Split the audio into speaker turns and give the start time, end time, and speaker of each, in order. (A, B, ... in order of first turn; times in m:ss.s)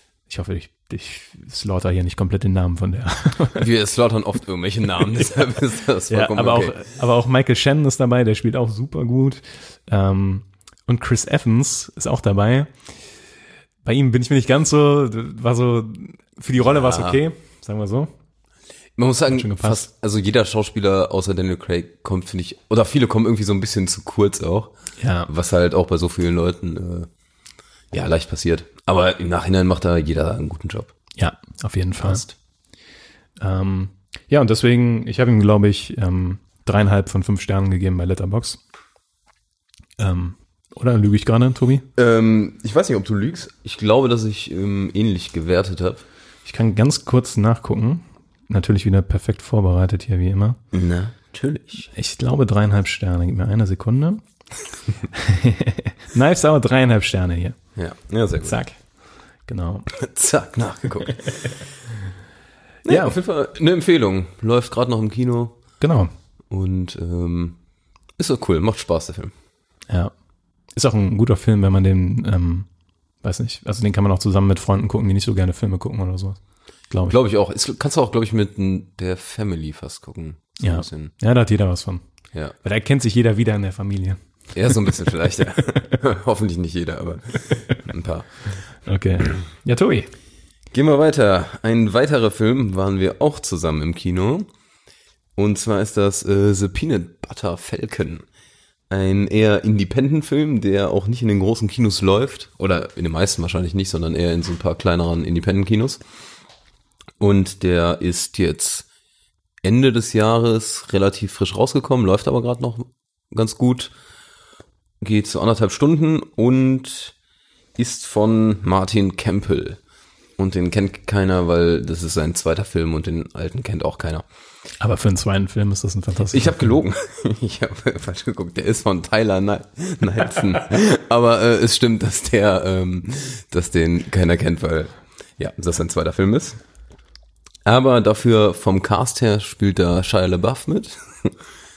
0:00.3-0:03.7 A
0:03.6-0:06.8 B
0:06.1-0:12.7 A
0:13.8-0:18.1 A
0:16.7-0:17.2 B
0:19.0-0:24.7 B
0:19.3-0:19.9 A
0:25.0-0:25.3 A
0:25.3-0:27.1 B
0:27.9-0:30.9 B
0:31.2-0:32.2 A
0:32.0-0:32.4 B
0:33.4-0:38.6 A
0:40.0-0:41.9 A
0:42.0-0:46.0 B
0:46.5-0:50.6 A
0:50.7-0:51.9 B
0:51.9-0:54.2 A
0:55.1-0:57.6 A
0:57.8-0:58.6 B
0:58.4-0:58.8 A
0:59.5-0:59.9 A
0:59.9-1:01.5 B
1:02.8-1:05.6 B
1:02.9-1:03.2 A
1:05.8-1:06.1 A
1:06.5-1:07.6 B
1:08.2-1:09.3 B
1:10.8-1:12.7 A
1:13.2-1:16.4 A
1:16.9-1:17.2 A
1:17.1-1:21.1 B
1:20.6-1:22.0 A
1:22.6-1:24.2 A
1:24.5-1:28.3 B
1:24.7-1:26.0 A
1:28.8-1:30.1 A
1:30.7-1:34.5 B
1:35.4-1:38.2 B
1:38.9-1:46.0 B
1:47.2-1:48.9 B
1:49.6-1:53.9 B
1:55.0-1:57.2 B
1:57.8-1:59.8 B
2:00.4-2:04.2 B
2:04.8-2:06.8 A
2:06.3-2:16.6 B
2:17.6-2:21.3 B